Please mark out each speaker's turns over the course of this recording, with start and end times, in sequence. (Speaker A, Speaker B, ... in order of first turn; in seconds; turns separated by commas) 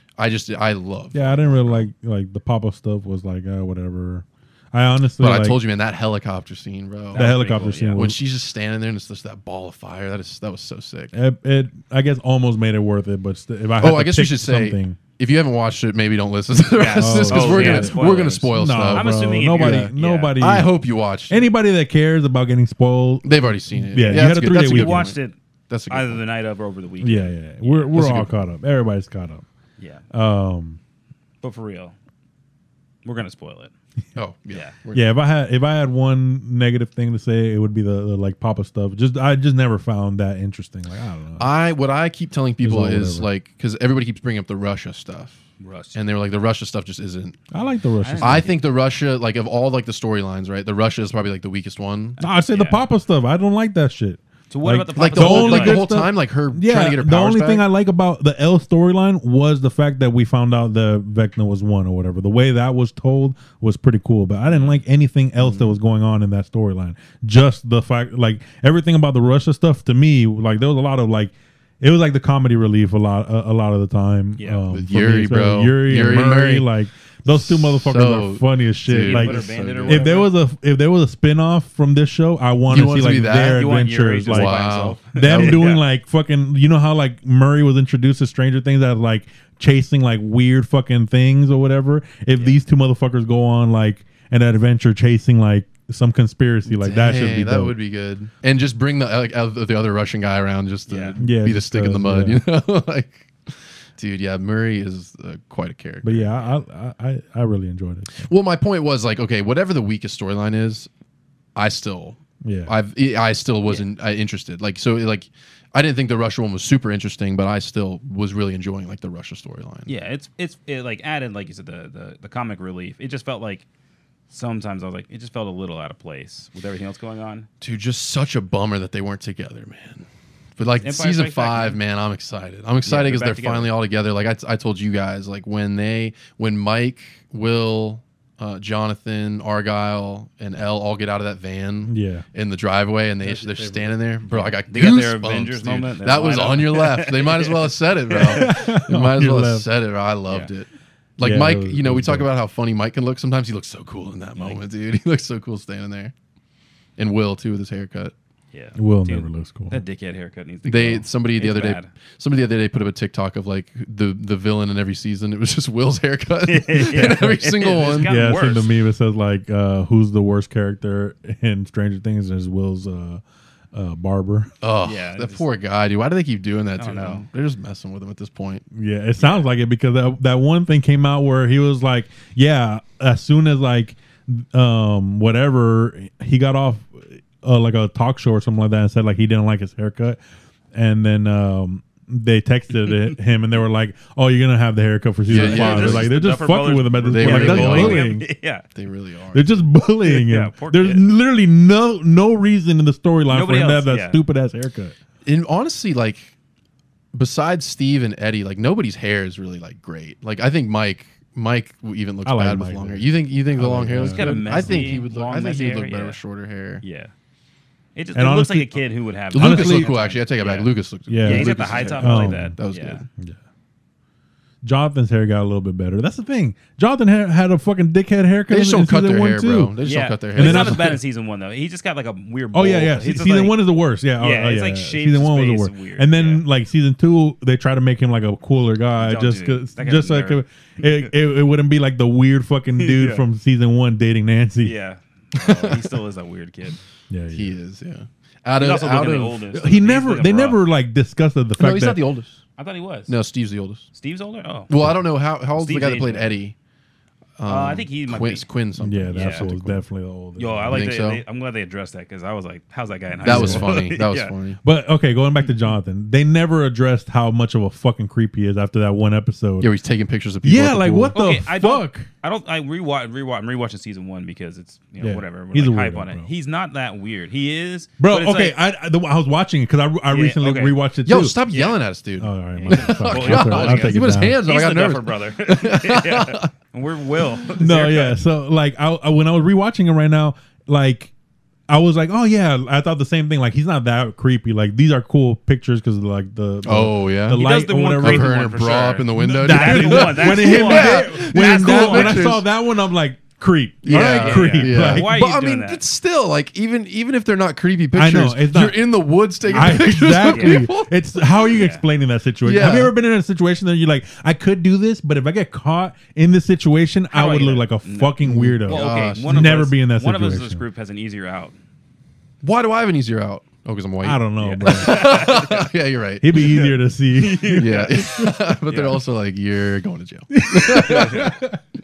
Speaker A: 0.2-1.9, Speaker B: 1.1-5.6, Speaker A: 5.2-7.3, Speaker C: 7.1-8.1, Speaker B: 7.1-8.2, Speaker A: 7.9-11.1, Speaker B: 11.1-15.0, Speaker A: 13.8-21.5, Speaker C: 16.7-20.4, Speaker B: 17.0-20.7, Speaker B: 21.3-25.1, Speaker A: 23.2-25.2, Speaker C: 24.1-25.4, Speaker A: 25.7-26.2, Speaker C: 25.9-28.0, Speaker B: 27.0-29.4, Speaker A: 27.9-28.3, Speaker C: 29.8-30.0, Speaker B: 30.1-30.8, Speaker C: 31.4-31.9, Speaker C: 33.0-33.7, Speaker A: 34.1-35.1, Speaker C: 34.5-34.7, Speaker B: 34.9-41.5, Speaker A: 41.4-45.4, Speaker B: 42.6-43.3, Speaker C: 45.6-46.0, Speaker A: 45.9-47.4, Speaker B: 47.5-48.5, Speaker C: 48.0-48.5, Speaker A: 48.2-52.2, Speaker B: 52.2-97.7, Speaker C: 52.5-52.8, Speaker C: 54.5-55.8, Speaker A: 54.9-57.6, Speaker C: 64.5-64.8, Speaker A: 65.4-65.7, Speaker C: 74.4-74.6, Speaker A: 74.7-76.7, Speaker A: 77.2-80.1, Speaker C: 78.9-80.3, Speaker A: 82.7-83.7, Speaker C: 83.4-85.8, Speaker A: 84.3-85.7, Speaker C: 92.4-92.6, Speaker A: 96.7-106.3, Speaker C: 100.9-101.2, Speaker B: 101.2-102.4, Speaker B: 106.0-108.3, Speaker A: 108.2-110.9, Speaker A: 111.5-119.9, Speaker B: 112.4-112.8, Speaker C: 119.9-123.7, Speaker C: 124.3-127.5, Speaker A: 127.6-156.1, Speaker C: 130.8-131.8, Speaker C: 132.8-133.7, Speaker B: 141.9-142.2, Speaker B: 143.2-143.9, Speaker C: 144.3-148.5, Speaker B: 148.2-149.7, Speaker B: 151.2-152.3, Speaker C: 154.3-154.6, Speaker A: 157.0-158.1, Speaker C: 158.5-161.9, Speaker B: 158.8-159.8, Speaker A: 160.6-168.1, Speaker C: 166.4-168.7, Speaker B: 168.1-173.2, Speaker B: 173.7-174.5, Speaker A: 174.6-178.6, Speaker C: 174.8-175.4, Speaker C: 176.8-177.2, Speaker B: 178.7-190.2, Speaker C: 179.2-179.5, Speaker B: 190.7-198.2, Speaker A: 195.3-196.2, Speaker C: 195.3-198.6, Speaker A: 197.0-198.2, Speaker A: 198.7-199.6, Speaker B: 199.3-204.9, Speaker C: 200.0-201.0, Speaker C: 203.3-204.2, Speaker A: 205.2-206.3, Speaker A: 207.1-216.8, Speaker B: 212.2-214.9, Speaker C: 213.9-216.2, Speaker C: 216.8-217.1, Speaker C: 217.9-223.0, Speaker B: 218.1-218.8, Speaker A: 219.3-223.1, Speaker B: 219.3-219.9, Speaker B: 221.1-222.6, Speaker B: 224.6-229.8, Speaker A: 228.5-231.0, Speaker C: 229.8-233.6, Speaker B: 230.3-230.9, Speaker B: 232.5-244.7, Speaker C: 234.2-236.4, Speaker C: 239.0-241.1, Speaker C: 242.8-243.2, Speaker C: 244.6-246.8, Speaker A: 245.3-245.9, Speaker B: 247.1-247.6, Speaker A: 247.3-249.4, Speaker C: 248.6-250.6, Speaker B: 249.5-252.0, Speaker A: 251.6-252.4, Speaker C: 252.6-253.2, Speaker A: 253.1-253.8, Speaker C: 253.9-254.8, Speaker A: 254.7-256.6, Speaker C: 255.5-256.4, Speaker A: 257.4-259.8, Speaker C: 257.5-258.5, Speaker B: 258.8-260.9, Speaker C: 259.1-259.5, Speaker C: 260.4-264.3, Speaker A: 260.7-261.2, Speaker B: 263.2-263.8, Speaker A: 263.2-264.6, Speaker B: 264.6-269.7, Speaker A: 269.6-271.2, Speaker B: 270.4-272.1, Speaker C: 271.1-278.6, Speaker B: 275.0-276.3, Speaker B: 278.0-281.4, Speaker C: 280.1-280.8, Speaker A: 281.0-286.5, Speaker C: 281.5-281.8, Speaker B: 282.2-284.4, Speaker C: 282.6-288.1, Speaker B: 287.6-291.1, Speaker B: 291.7-298.4, Speaker A: 296.6-297.4, Speaker C: 297.3-302.3, Speaker A: 298.0-302.4, Speaker B: 299.1-305.1, Speaker A: 303.8-311.6, Speaker C: 303.9-305.8, Speaker B: 307.9-308.8, Speaker C: 309.4-310.7, Speaker B: 309.5-320.6, Speaker C: 311.5-311.8, Speaker A: 312.4-312.9, Speaker C: 317.1-321.5, Speaker A: 318.2-319.6, Speaker A: 322.4-326.4, Speaker B: 324.0-325.2, Speaker C: 324.4-325.7, Speaker B: 326.2-327.7, Speaker C: 326.3-329.0, Speaker A: 327.5-331.4, Speaker B: 330.3-331.6, Speaker C: 330.8-331.3